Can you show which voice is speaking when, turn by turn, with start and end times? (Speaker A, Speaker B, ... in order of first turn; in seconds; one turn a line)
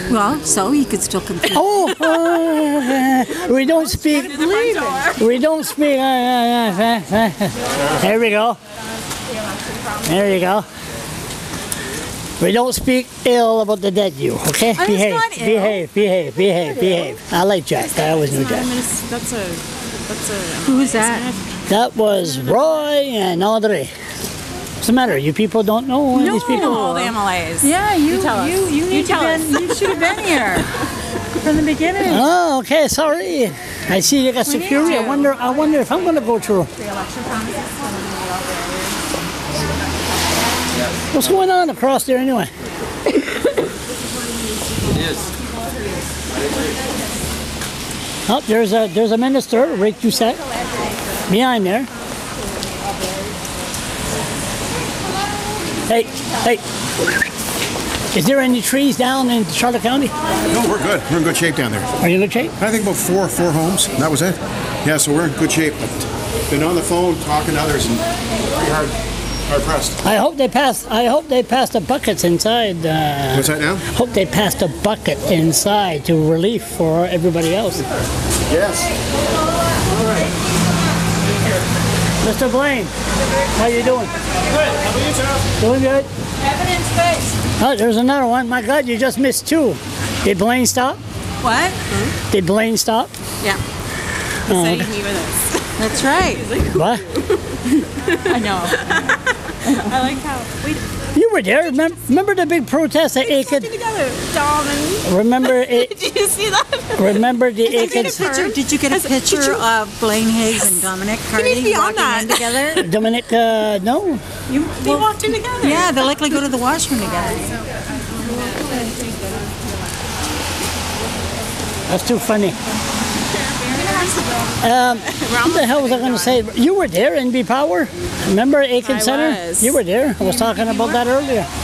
Speaker A: 0.1-2.3
Speaker B: 1.5-4.4
Speaker C: 3.9-5.3
Speaker A: 4.3-5.1
Speaker B: 5.2-8.6
Speaker B: 10.0-10.7
Speaker B: 12.4-18.7
Speaker A: 14.8-15.8
Speaker C: 17.8-21.4
Speaker A: 20.6-21.3
Speaker B: 21.7-23.9
Speaker B: 24.8-26.8
Speaker A: 26.1-30.7
Speaker C: 26.3-30.2
Speaker A: 31.4-32.3
Speaker B: 32.0-36.7
Speaker A: 34.5-35.0
Speaker C: 34.8-35.3
Speaker C: 37.0-38.6
Speaker B: 41.1-42.5
Speaker B: 48.3-50.4
Speaker B: 51.3-51.9
Speaker B: 55.9-56.6
Speaker B: 58.1-60.1
Speaker D: 60.5-61.9
Speaker B: 62.0-62.6
Speaker D: 62.6-68.0
Speaker D: 68.6-69.0
Speaker D: 69.5-70.0
Speaker B: 70.0-77.8
Speaker D: 73.3-73.8
Speaker D: 78.5-78.8
Speaker B: 82.2-82.9
Speaker B: 83.5-84.1
Speaker B: 85.6-86.1
Speaker B: 87.6-91.0
Speaker A: 91.4-91.8
Speaker B: 92.3-93.1
Speaker B: 94.5-94.9
Speaker C: 94.5-96.9
Speaker A: 95.8-96.4
Speaker B: 96.7-97.0
Speaker C: 97.5-100.8
Speaker B: 101.1-103.7
Speaker C: 103.2-109.6
Speaker B: 105.0-105.9
Speaker B: 107.0-108.3
Speaker A: 107.7-112.8
Speaker C: 111.3-112.9
Speaker B: 112.8-114.2
Speaker C: 114.5-116.1
Speaker A: 115.6-117.6
Speaker C: 118.3-119.1
Speaker B: 121.9-122.6
Speaker C: 123.6-126.3
Speaker B: 124.6-131.5
Speaker C: 128.8-129.8